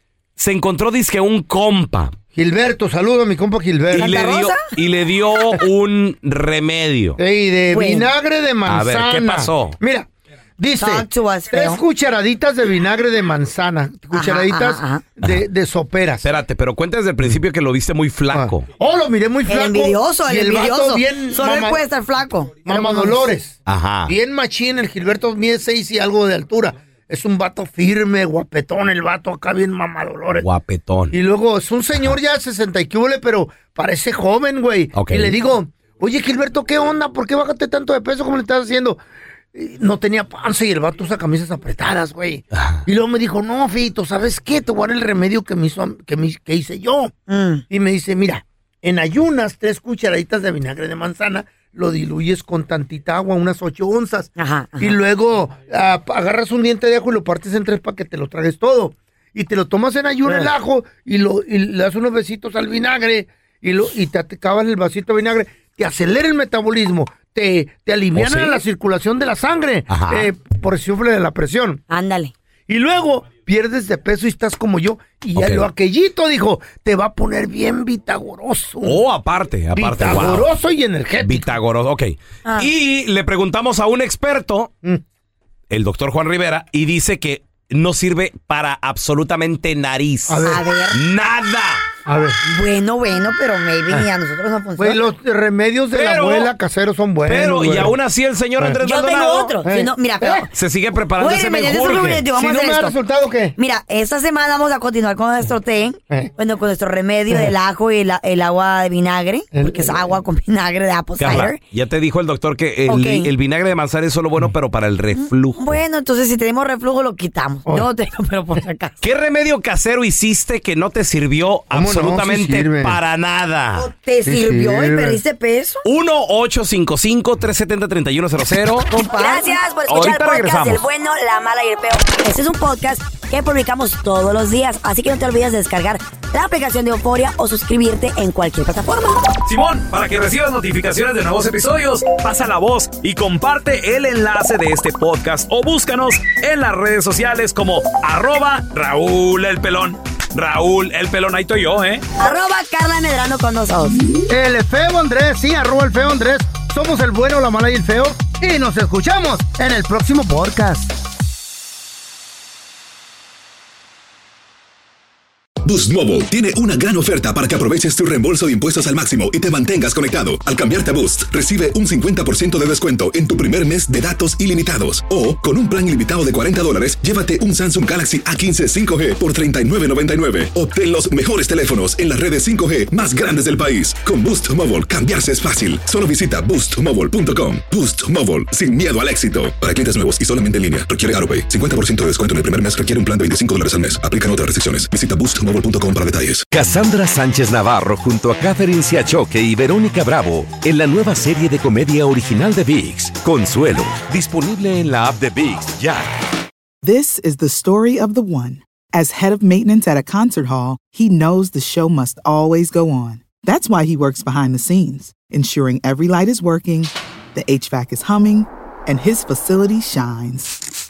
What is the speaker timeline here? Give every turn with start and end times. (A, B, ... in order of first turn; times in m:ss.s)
0:00.4-0:02.2 A
0:02.3-0:04.2 B
0:03.9-0:07.2 A
0:04.0-0:04.7 C
0:07.2-0:16.3 B
0:07.7-0:08.1 C
0:08.7-0:09.8 A
0:10.8-0:11.8 C
0:14.1-0:15.0 C
0:16.2-0:18.6 A
0:18.3-0:21.8 B
0:19.5-0:23.3 C
0:22.6-0:30.5 B
0:23.7-0:24.1 A
0:30.4-0:31.2 A
0:31.1-0:39.0 B
0:34.9-0:35.4 A
0:39.5-0:47.1 B
0:42.5-0:42.8 A
0:47.3-0:47.6 C
0:47.7-1:11.8 B
0:54.4-0:55.0 C
1:08.2-1:08.6 A
1:09.9-1:10.3 A
1:11.9-1:12.3 C
1:12.7-1:19.0 B
1:15.4-1:15.7 A
1:18.8-1:20.5 A
1:19.7-1:21.5 B
1:21.2-1:24.7 A
1:22.4-1:22.7 C
1:25.7-1:31.8 A
1:30.3-1:30.6 B
1:30.4-1:31.0 C
1:32.1-1:32.4 B
1:32.4-1:35.0 C
1:34.8-1:38.0 B
1:35.9-1:36.5 A
1:37.3-1:39.6 A
1:38.8-1:40.5 C
1:39.6-1:40.5 B
1:40.5-1:42.2 A
1:41.2-1:43.0 C
1:42.3-1:43.6 B
1:43.6-1:51.6 C
1:49.5-1:50.2 B
1:51.2-1:55.8 A
1:52.9-1:53.3 C
1:55.2-1:59.0 C
1:59.0-2:03.9 A
2:01.7-2:03.0 B
2:03.8-2:05.8 C
2:04.2-2:05.2 B
2:05.8-2:10.8 A
2:08.9-2:19.3 C
2:19.4-2:32.0 A
2:32.2-2:34.0 C
2:34.2-2:40.9 B
2:45.6-3:16.5 D
3:16.5-3:26.2 E
3:26.8-3:40.7 F